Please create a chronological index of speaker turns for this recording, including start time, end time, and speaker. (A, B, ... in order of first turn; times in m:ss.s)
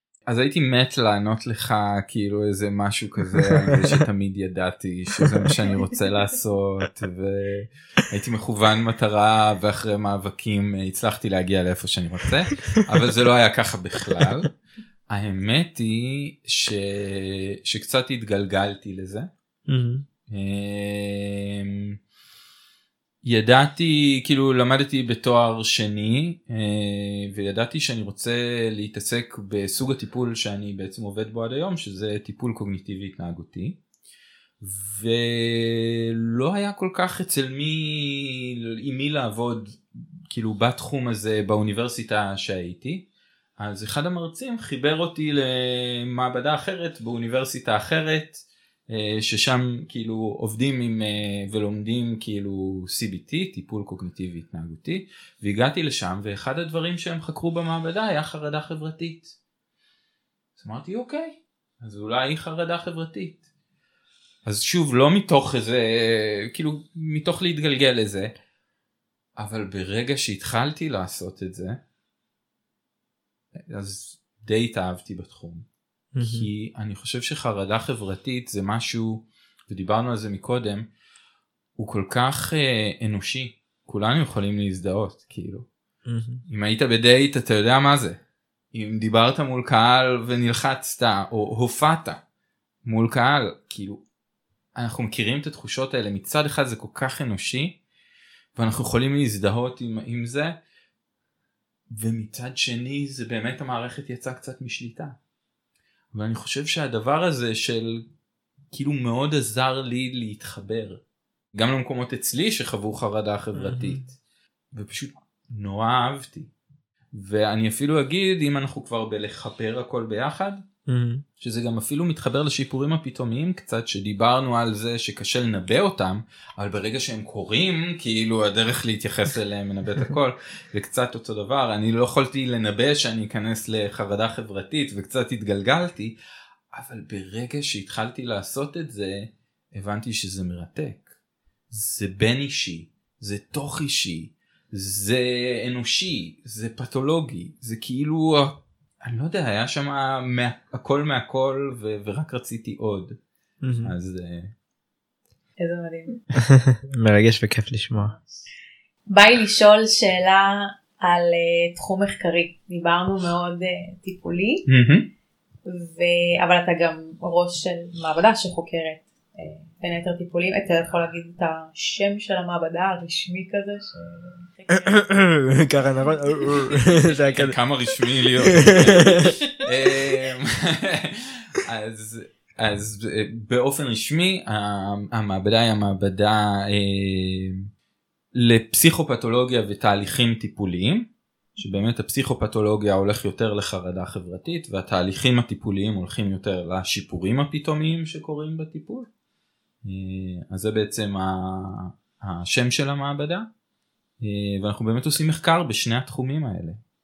0:00.3-0:14.5 A
0:03.4-0:03.8 B
0:05.2-0:05.5 B
0:15.1-0:19.3 A
0:19.7-0:20.0 B
0:20.3-0:22.0 A
0:23.2-0:33.8 A
0:34.6-0:43.1 A
0:43.6-0:59.4 A
1:00.6-1:03.4 A
1:04.4-1:08.3 A
1:09.4-1:11.8 A
1:13.6-1:15.7 A
1:16.2-1:16.5 B
1:16.2-1:20.9 A
1:21.8-1:25.7 A
1:26.1-1:26.4 B
1:26.5-1:28.2 A
1:28.7-1:32.2 A
1:32.8-1:34.0 A
1:34.8-1:37.8 A
1:38.6-1:40.6 A
1:41.9-1:45.2 A
1:46.1-1:48.1 A
1:48.7-1:51.0 A
1:51.5-1:54.1 A
1:53.6-1:54.1 B
1:54.7-1:56.5 A
1:57.1-2:00.6 A
2:00.9-2:01.2 B
2:01.4-2:16.2 A
2:16.7-2:21.1 A
2:21.7-2:33.2 A
2:33.6-2:33.9 B
2:33.8-2:34.5 A
2:35.6-2:36.2 C
2:36.5-2:38.2 B
2:38.0-2:38.4 C
2:39.1-2:44.6 C
2:44.7-2:45.1 A
2:45.7-2:55.1 C
2:54.8-2:57.6 B
2:56.2-2:57.0 C
2:57.4-3:07.6 A
2:58.5-2:59.3 B
3:08.3-3:19.1 A
3:19.8-3:23.5 A
3:24.2-3:26.8 A